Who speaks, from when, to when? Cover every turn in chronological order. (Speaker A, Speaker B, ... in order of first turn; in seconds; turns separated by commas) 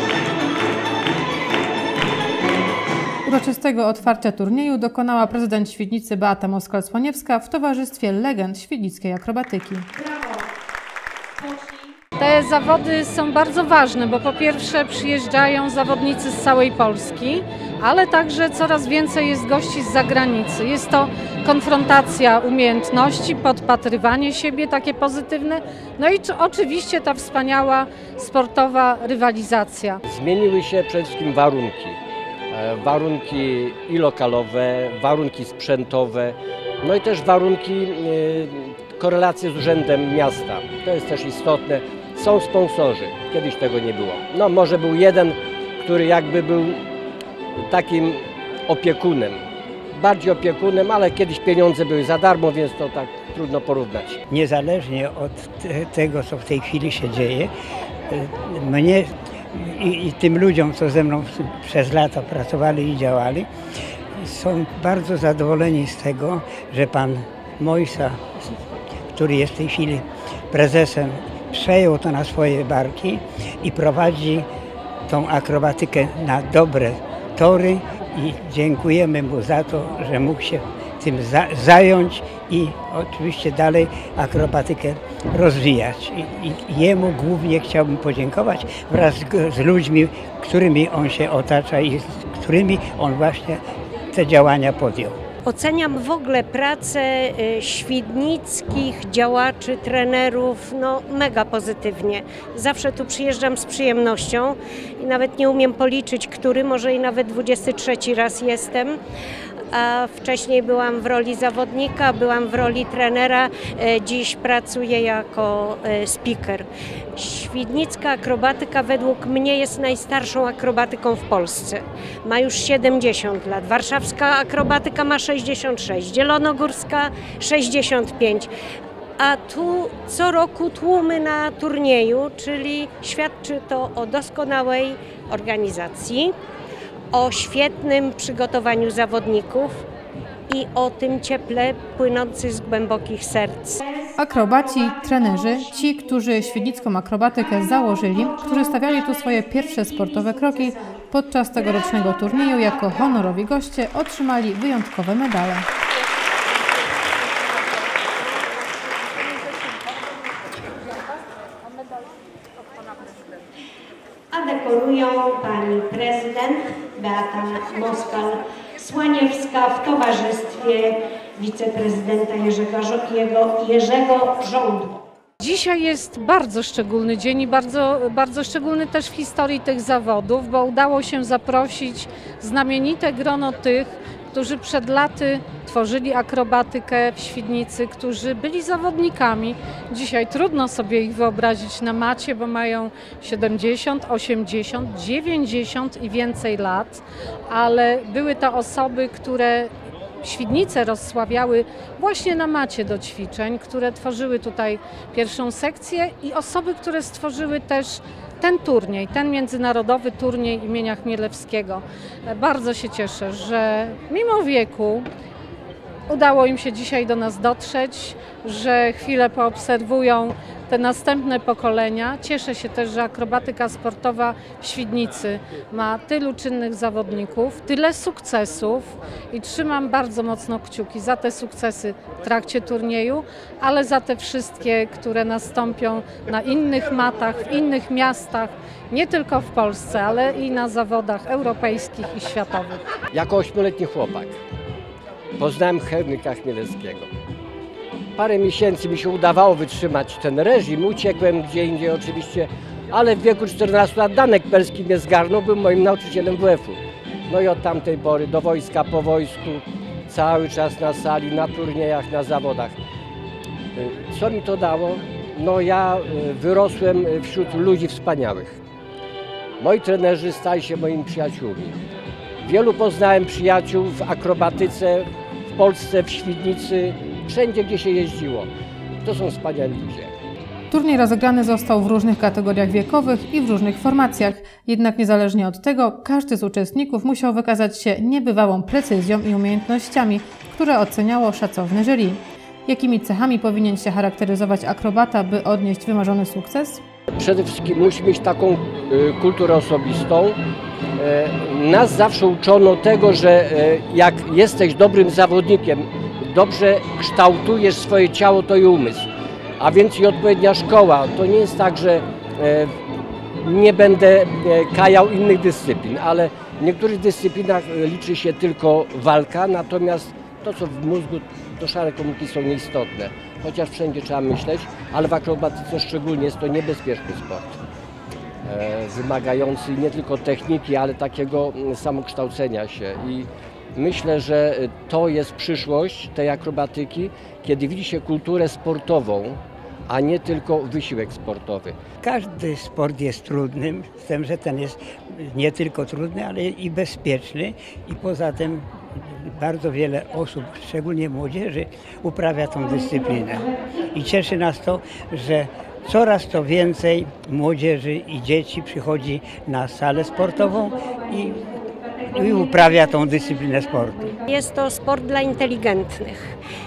Speaker A: 3.2-9.9, Speaker B: 10.0-10.3, Speaker C: 12.2-30.0, Speaker D: 30.0-46.9, Speaker D: 47.5-54.2, Speaker E: 54.3-57.5, Speaker E: 58.1-63.5, Speaker E: 64.2-68.6, Speaker E: 69.1-74.5, Speaker E: 75.1-95.2, Speaker B: 95.4-109.0, Speaker B: 109.7-128.5, Speaker B: 129.2-136.3, Speaker B: 137.1-139.8, Speaker B: 140.5-144.1, Speaker A: 144.2-155.7, Speaker B: 164.3-175.0, Speaker C: 175.4-199.7, Speaker C: 200.2-215.1, Speaker C: 216.1-242.8, Speaker D: 243.1-244.4, Speaker D: 245.4-247.1, Speaker D: 248.1-262.8, Speaker D: 263.7-268.6, Speaker D: 269.6-271.8, Speaker D: 272.4-278.5, Speaker D: 279.0-280.1, Speaker A: 280.7-296.8, Speaker D: 297.1-300.4, Speaker D: 300.9-312.7, Speaker D: 313.4-327.6, Speaker D: 328.4-341.8, Speaker E: 342.0-364.2, Speaker B: 364.3-366.3